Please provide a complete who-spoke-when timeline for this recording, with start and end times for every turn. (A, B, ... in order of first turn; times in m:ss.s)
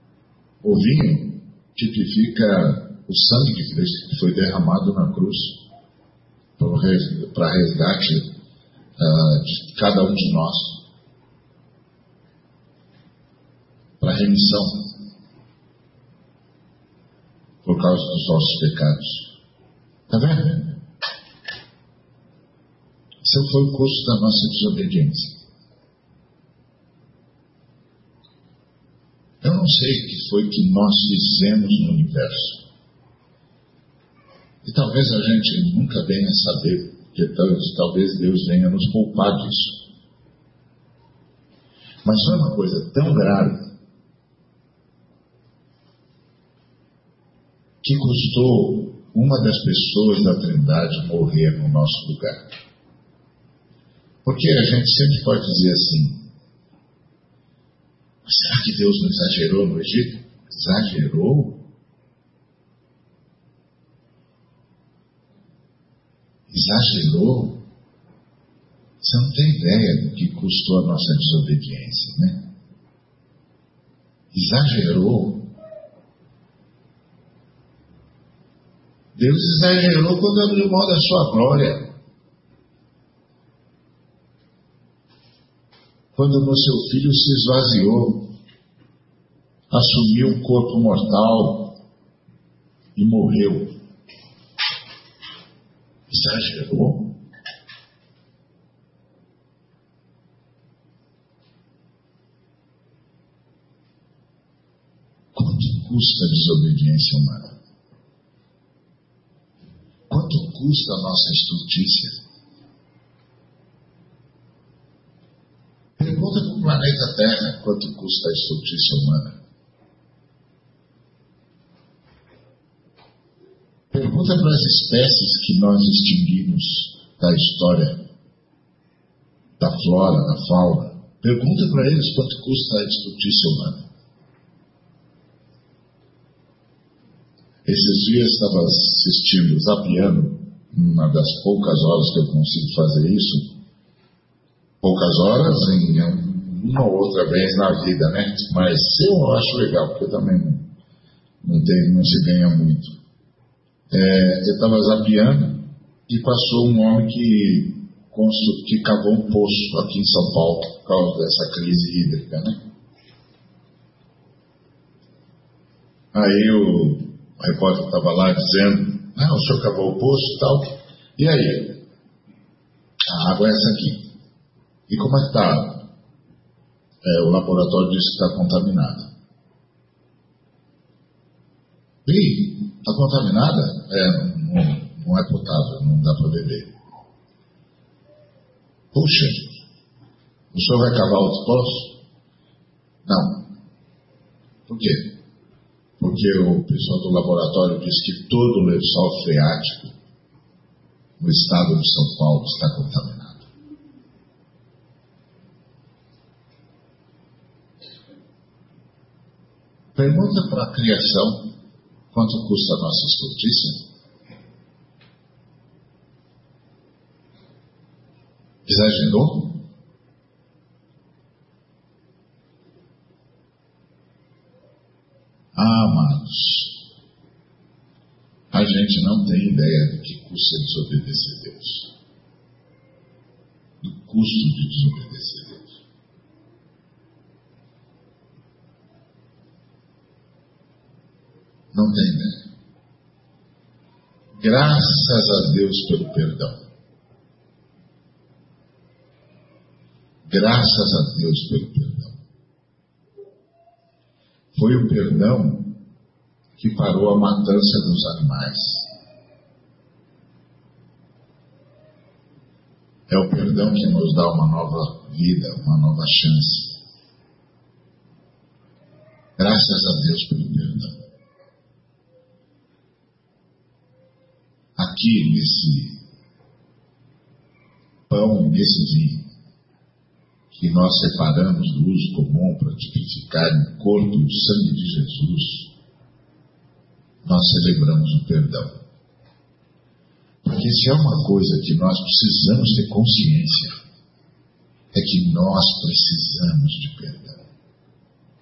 0:00.6-0:05.6 A
0:06.6-0:08.3 A
0:09.0-0:10.8 A
0:14.0-0:15.0 A
0:17.6-0:19.3 A
0:20.1-0:20.8 A
0:23.2-0:25.4 A
0:29.4-0:32.6 A
0:34.6-0:39.9 A
0:42.0-0:43.7 A
0:47.8-0:52.5 A
0:54.2-0:56.3 A
0:58.2-1:01.6 A
1:06.5-1:07.6 A
1:09.0-1:12.4 A
1:14.3-1:15.5 A
1:19.2-1:21.9 A
1:26.1-1:28.3 A
1:29.7-1:31.8 A
1:32.9-1:33.7 A
1:36.1-1:37.2 A
1:45.3-1:47.5 A
1:50.1-1:52.2 A
1:56.0-1:59.3 A
2:03.9-2:08.0 A
2:09.6-2:13.8 A
2:17.6-2:23.5 A
2:24.8-2:30.7 A
2:31.4-2:33.0 A
2:33.9-2:42.6 A
2:46.1-2:51.8 A
2:53.1-2:54.1 A
2:54.9-2:55.8 A
2:57.0-2:59.1 A
3:02.0-3:06.7 A
3:08.9-3:09.6 A
3:10.5-3:12.0 A
3:13.0-3:13.5 A
3:14.7-3:15.2 A
3:16.0-3:19.9 A
3:21.2-3:23.4 A
3:30.0-3:31.5 A
3:32.1-3:33.8 A
3:38.6-3:39.6 A
3:45.5-3:46.8 A
3:48.5-3:51.9 A
3:53.8-3:55.8 A
4:01.7-4:02.5 A
4:04.4-4:06.6 A
4:10.3-4:12.2 A
4:14.5-4:15.8 A
4:16.6-4:18.9 A
4:23.1-4:26.8 A
4:29.4-4:31.0 A
4:34.8-4:36.0 A
4:38.1-4:39.2 A
4:40.5-4:45.7 A
4:47.2-4:48.7 A
4:50.4-4:53.8 A
4:54.9-4:57.4 A